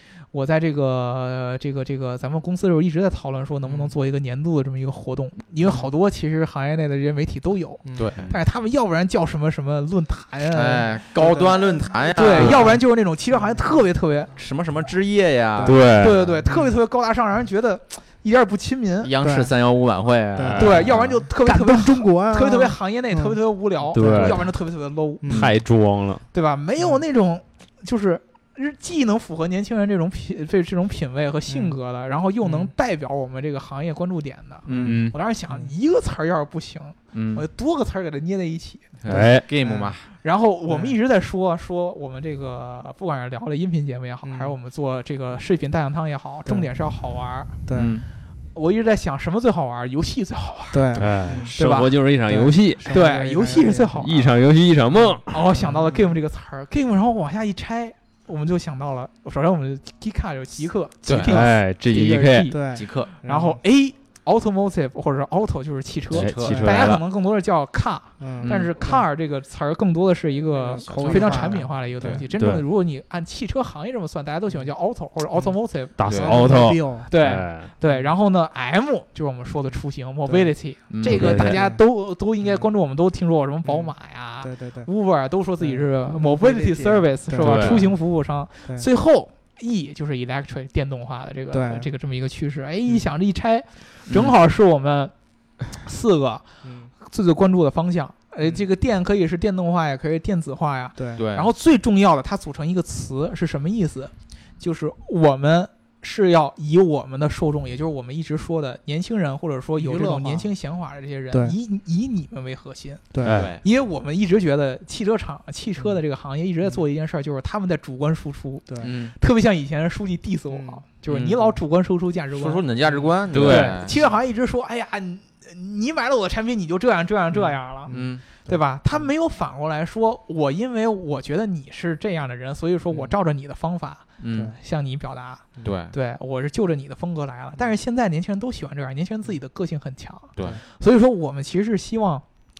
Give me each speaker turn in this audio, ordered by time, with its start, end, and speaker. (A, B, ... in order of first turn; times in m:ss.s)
0:00.3-0:10.9 A
0:07.8-0:08.2 B
0:07.9-0:08.3 C
0:10.5-0:12.8 C
0:11.2-0:11.6 B
0:12.1-0:14.3 A
0:12.3-0:12.7 B
0:13.3-0:13.8 B
0:14.4-0:16.4 C
0:15.6-0:15.8 B
0:15.6-0:16.2 D
0:15.9-0:19.1 A
0:16.4-0:16.7 B
0:19.0-0:21.2 C
0:19.2-0:19.5 B
0:20.4-0:20.8 D
0:20.4-0:23.4 B
0:20.6-0:25.3 A
0:23.9-0:24.5 D
0:23.9-0:24.5 B
0:25.2-0:25.5 B
0:25.3-0:25.5 C
0:25.3-0:26.2 D
0:26.3-0:38.8 A
0:31.5-0:31.8 B
0:32.4-0:32.7 B
0:34.6-0:35.0 C
0:34.8-0:35.1 D
0:37.1-0:37.4 C
0:39.0-0:40.0 C
0:39.1-0:39.4 D
0:39.1-0:39.9 B
0:40.2-0:47.6 A
0:40.7-0:40.9 B
0:44.2-0:44.5 B
0:47.6-0:47.9 B
0:47.7-0:48.1 C
0:48.5-0:51.9 A
0:50.7-0:51.5 B
0:51.0-0:52.9 D
0:52.3-0:54.0 B
0:52.9-0:54.3 A
0:54.0-0:55.2 D
0:55.1-0:56.1 B
0:55.3-1:02.7 A
1:01.0-1:01.4 C
1:01.2-1:02.5 D
1:02.5-1:03.6 B
1:02.7-1:03.1 C
1:03.2-1:35.1 A
1:06.1-1:07.0 D
1:06.1-1:07.0 C
1:08.2-1:09.0 B
1:08.4-1:08.7 C
1:10.7-1:12.2 B
1:10.7-1:12.2 C
1:12.4-1:12.6 D
1:16.0-1:17.7 D
1:16.0-1:16.5 C
1:16.1-1:17.1 B
1:20.9-1:21.3 C
1:21.0-1:21.6 D
1:21.3-1:21.8 B
1:23.6-1:24.9 B
1:25.6-1:27.9 B
1:27.4-1:27.8 D
1:31.5-1:31.9 B
1:34.1-1:34.3 C
1:35.7-1:36.4 A
1:36.6-1:36.9 B
1:37.0-1:53.1 A
1:41.0-1:41.2 B
1:41.2-1:41.5 C
1:49.8-1:50.5 B
1:53.1-1:53.4 B
1:53.2-1:53.5 D
1:53.3-1:53.6 C
1:53.6-2:22.2 A
1:58.8-1:59.1 C
2:00.5-2:00.8 B
2:02.3-2:04.0 C
2:03.3-2:03.8 D
2:07.8-2:09.1 B
2:07.9-2:08.2 C
2:14.2-2:14.5 C
2:15.6-2:15.9 C